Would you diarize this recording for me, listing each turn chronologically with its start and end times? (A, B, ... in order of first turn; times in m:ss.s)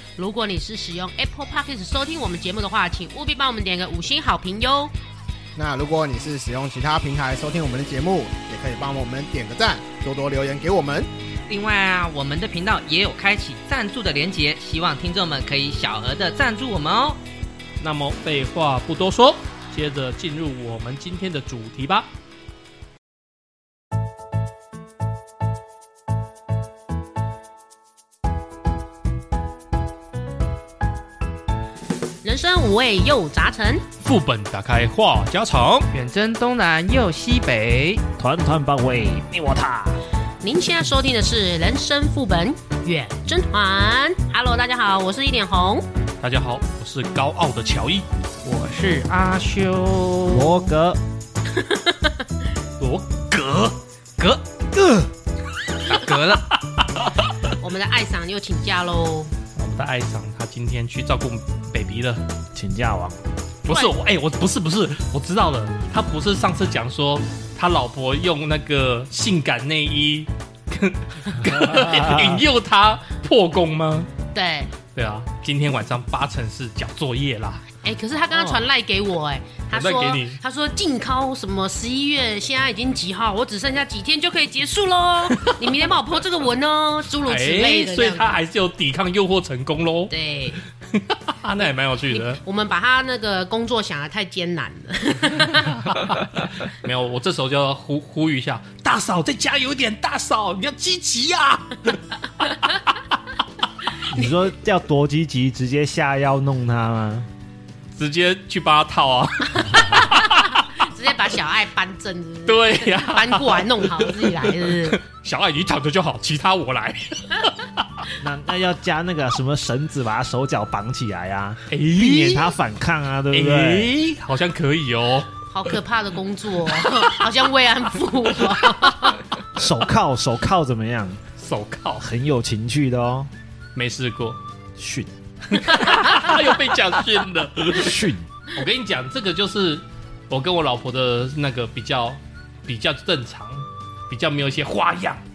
0:00.2-0:04.9 A
0:05.6-0:11.1 B
0:11.5-0:17.2 C
0:17.8-0:22.1 D
0:32.2-0:33.8 A
0:34.0-0:35.9 D
0:35.9-0:38.0 C
0:38.2-0:40.0 E
0:40.4-0:45.8 A
0:46.2-0:48.0 D
0:48.4-0:50.7 C
0:50.3-0:51.0 E
0:51.5-0:52.2 A
0:52.8-0:53.7 D
0:54.7-0:55.1 E
0:55.9-0:56.6 C
0:56.8-0:57.2 D
0:57.4-0:59.3 A
0:59.6-1:02.2 D
1:02.5-1:03.2 E
1:03.6-1:14.1 D
1:11.6-1:12.4 E
1:14.3-1:14.7 A
1:14.9-1:17.7 D
1:17.8-1:28.4 A
1:19.7-1:20.4 D
1:27.2-1:30.1 D
1:30.1-1:30.6 A
1:30.9-1:32.4 D
1:32.1-1:36.0 A
1:35.5-1:42.0 D
1:44.1-1:47.3 E
1:47.9-1:50.6 D
1:49.6-1:55.0 A
1:52.5-1:57.8 D
1:58.2-2:03.9 E
2:01.7-2:02.5 D
2:03.3-2:05.3 D
2:05.5-2:09.2 A
2:06.7-2:07.2 D
2:09.5-2:11.2 E
2:11.4-2:12.0 D
2:12.0-2:13.3 E
2:13.7-2:14.4 D
2:14.8-2:15.1 E
2:15.5-2:25.2 D
2:15.8-2:16.1 A
2:17.7-2:18.2 E